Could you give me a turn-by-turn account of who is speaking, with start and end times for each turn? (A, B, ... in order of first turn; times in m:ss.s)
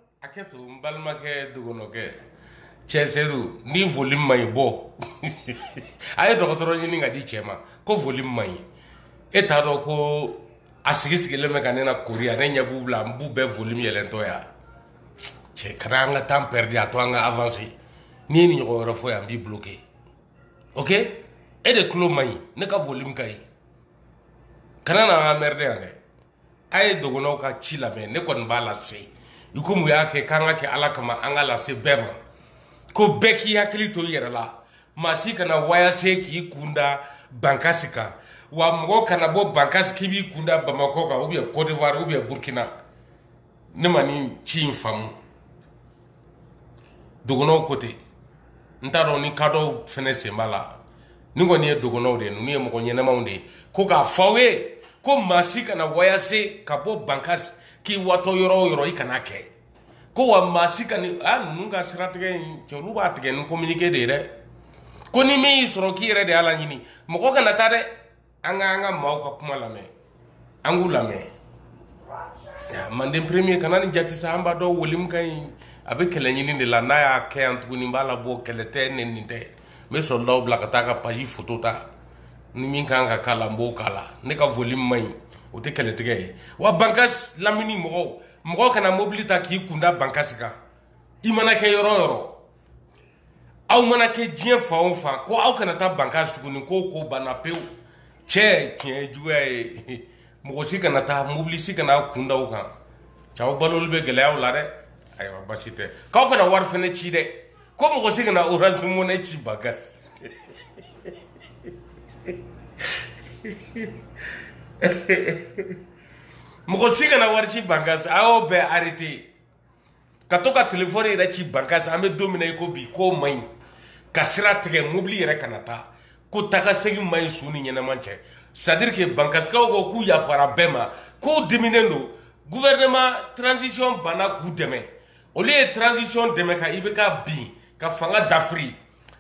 0:00.2-0:02.1 A
0:02.9-0:08.6 A
0:09.3-0:14.5 A
0:15.5-0:17.8 A
0:18.3-0:19.8 A
0:20.8-0:23.4 A
0:24.8-0:26.0 A
0:26.7-0:32.2 A
0:32.9-0:42.7 A
0:43.8-0:45.2 A
0:47.2-0:48.0 A
0:48.8-0:50.8 A
0:51.4-0:59.5 A
1:00.1-1:04.3 A
1:05.1-1:07.9 A
1:08.4-1:09.9 A
1:10.6-1:11.3 A
1:12.7-1:21.9 A
1:22.5-1:30.5 A
1:31.2-1:32.4 A
1:33.7-1:37.6 A
1:38.3-1:42.7 A
1:43.4-1:50.0 A
1:53.4-1:53.9 A
1:54.8-1:55.8 A
1:56.7-1:59.3 A
2:00.3-2:03.5 A
2:04.1-2:18.8 A